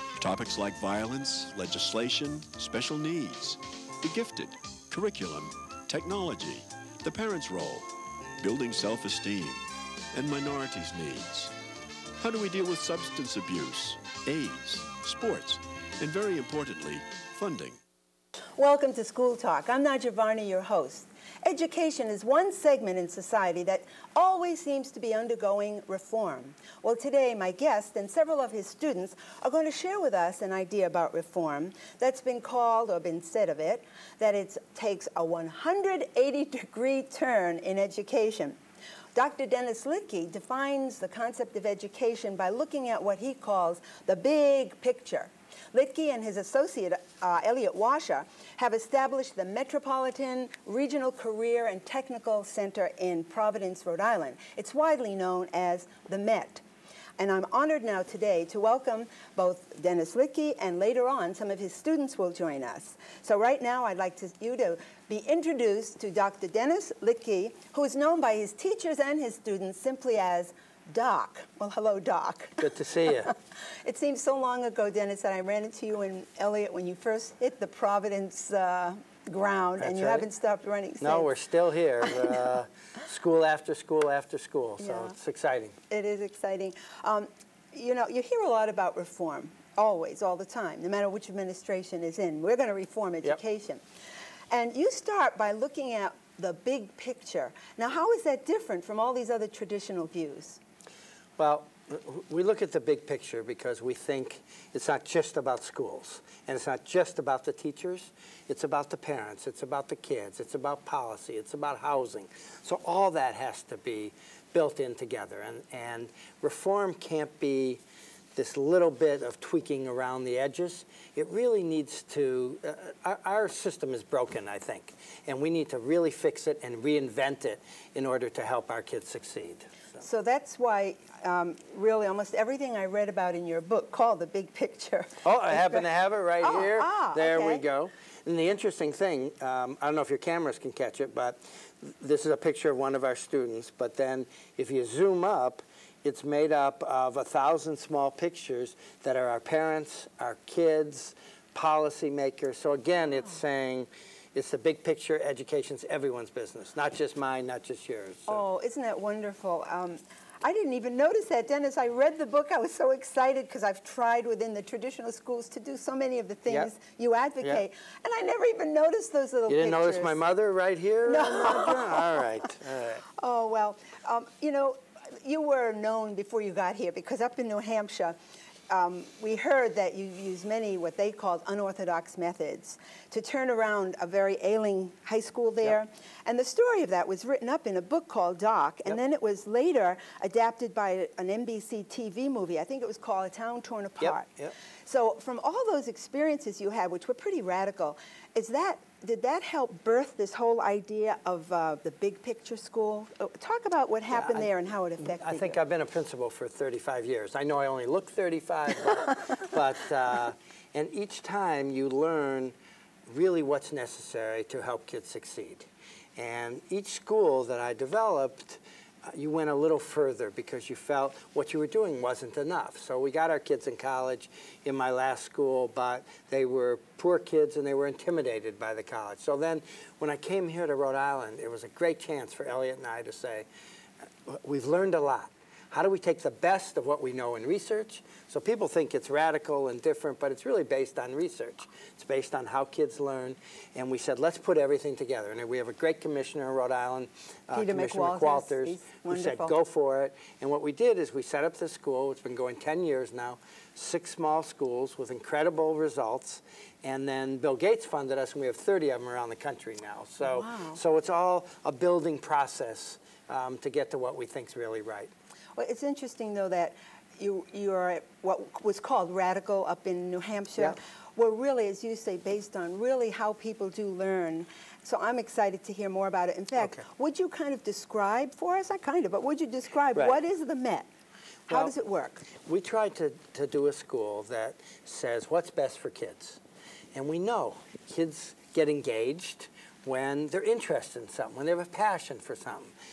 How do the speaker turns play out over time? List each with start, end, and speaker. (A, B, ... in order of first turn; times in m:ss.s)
0:00.2-0:11.5 A
0:12.2-0:17.8 A
0:18.6-0:38.6 B
0:39.1-0:56.6 B
0:57.2-1:21.3 B
1:12.6-1:13.3 C
1:19.8-1:20.2 C
1:21.0-1:25.8 C
1:22.0-1:22.4 B
1:24.8-1:25.1 B
1:25.9-1:33.8 B
1:34.5-1:40.6 B
1:41.4-1:57.8 C
1:58.3-2:10.0 C
2:10.0-2:15.8 B
2:15.2-2:38.4 C
2:16.4-2:17.6 B
2:38.3-2:50.2 B
2:49.5-2:53.0 C
2:51.0-2:52.2 B
2:53.2-2:58.2 B
2:58.7-3:14.3 B
3:14.0-3:14.5 C
3:14.8-3:25.6 B
3:24.1-3:32.5 C
3:33.1-3:53.5 C
3:54.3-4:25.1 C
4:07.5-4:09.5 B
4:20.2-4:20.8 B
4:25.6-4:40.9 B
4:36.6-4:36.8 C
4:41.5-4:42.2 B
4:41.5-4:41.7 C
4:42.3-4:46.4 C
4:46.9-4:52.7 C